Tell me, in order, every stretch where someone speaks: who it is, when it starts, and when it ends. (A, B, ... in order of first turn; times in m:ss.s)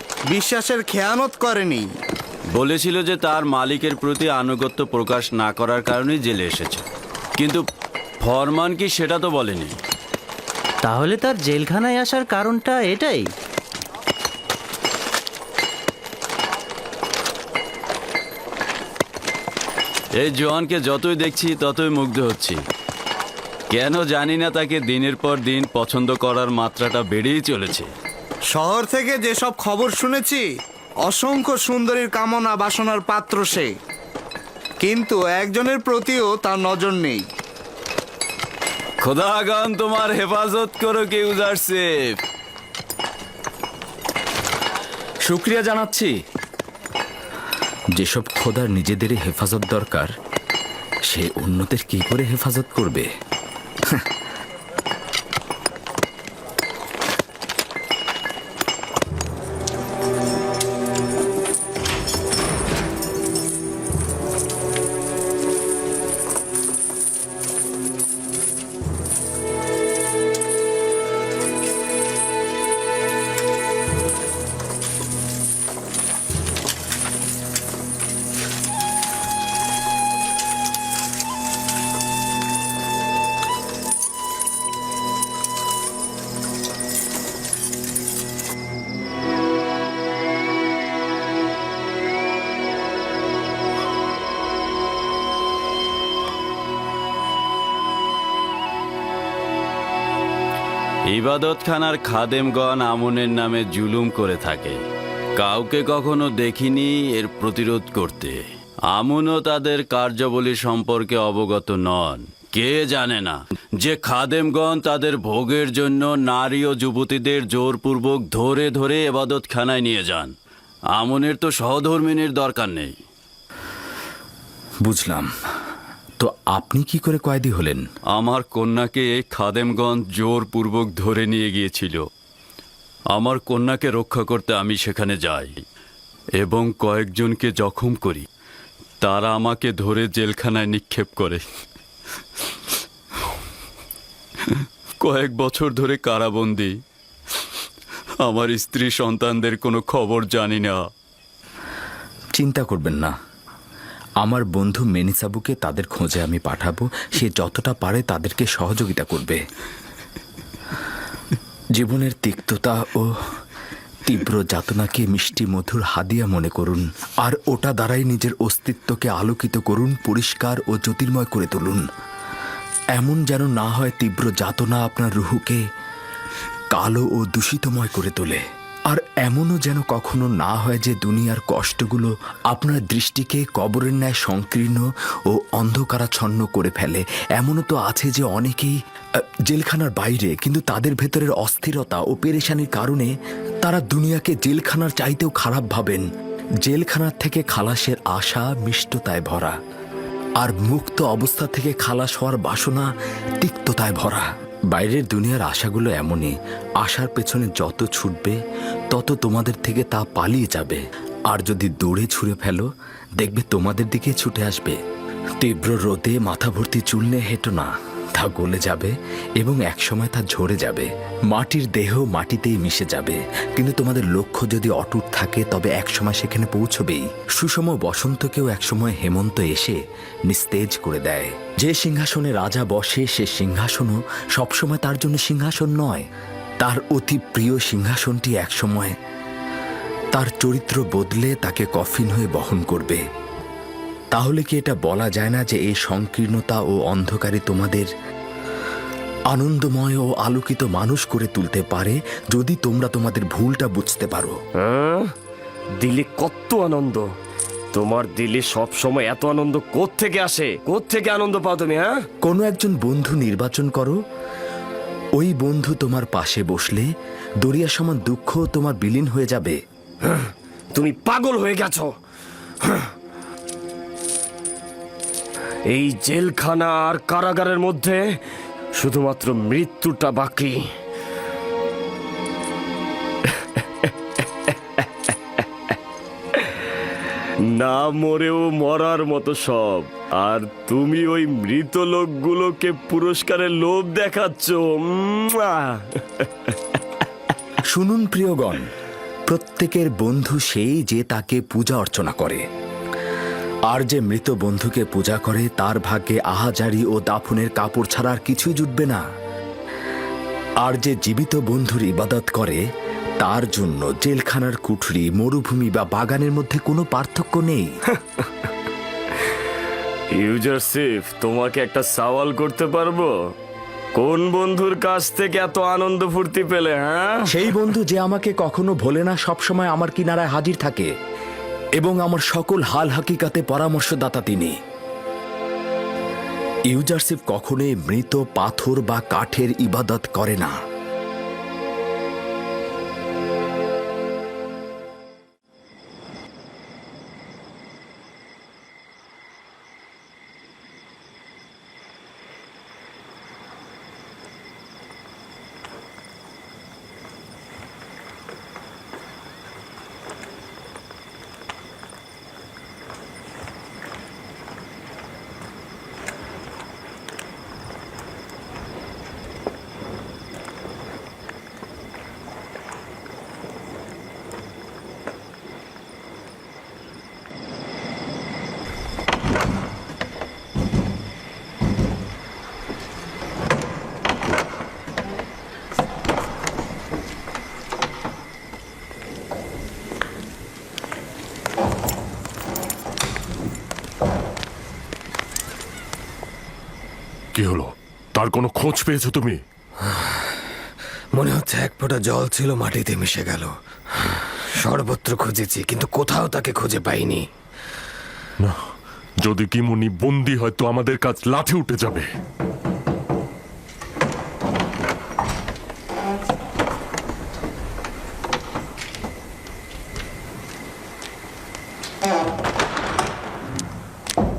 0:00.3-0:01.9 A
0:02.6-0:06.8 B
0:07.4-0:07.6 B
0:08.2-0:09.7 B
0:10.8-0:13.3 C
0:20.2-0:22.6 B
0:23.7-0:27.9 B
0:28.5-0:30.4 A
0:31.1-0:33.7 A
0:34.8-0:37.2 A
0:39.0-0:42.2 B
0:45.3-0:46.1 D
0:48.0-0:50.1 D
0:51.1-0:53.1 D
1:41.1-1:44.8 B
1:45.4-2:00.3 B
2:01.0-2:02.9 B
2:04.8-2:05.3 D
2:06.2-2:07.8 D
2:08.1-2:12.0 B
2:13.1-2:15.6 B
2:16.4-2:18.2 B
2:19.0-2:21.4 B
2:25.0-2:26.7 B
2:28.2-2:30.8 B
2:32.4-2:33.1 D
2:34.2-2:39.4 D
2:41.8-2:43.1 D
2:44.0-2:51.8 D
2:53.0-2:55.6 D
2:56.7-3:08.8 D
3:09.5-3:13.1 D
3:13.6-3:16.0 D
3:16.6-3:19.6 D
3:20.4-3:28.4 D
3:28.9-3:32.7 D
3:33.2-3:34.8 D
3:35.4-3:56.0 D
3:56.6-3:58.9 D
4:00.1-4:03.0 D
4:04.1-4:07.9 D
4:09.3-4:14.4 D
4:14.6-4:15.1 E
4:15.8-4:17.1 E
4:17.7-4:21.9 E
4:22.2-4:24.0 D
4:25.2-4:26.9 D
4:27.4-4:29.6 D
4:30.0-4:31.9 E
4:32.6-4:32.9 E
4:35.7-4:38.1 E
4:38.8-4:40.7 E
4:47.5-4:56.5 E
4:57.7-4:58.7 D
4:59.3-5:02.4 D
5:03.7-5:09.0 D
5:10.6-5:12.6 D
5:13.2-5:17.7 D
5:20.1-5:23.1 E
5:24.0-5:27.5 E
5:27.3-5:30.9 D
5:31.8-5:34.5 D
5:36.7-5:40.6 D
6:37.4-6:39.4 F
6:41.1-6:43.5 G
6:44.6-6:47.3 G
6:49.2-6:52.1 F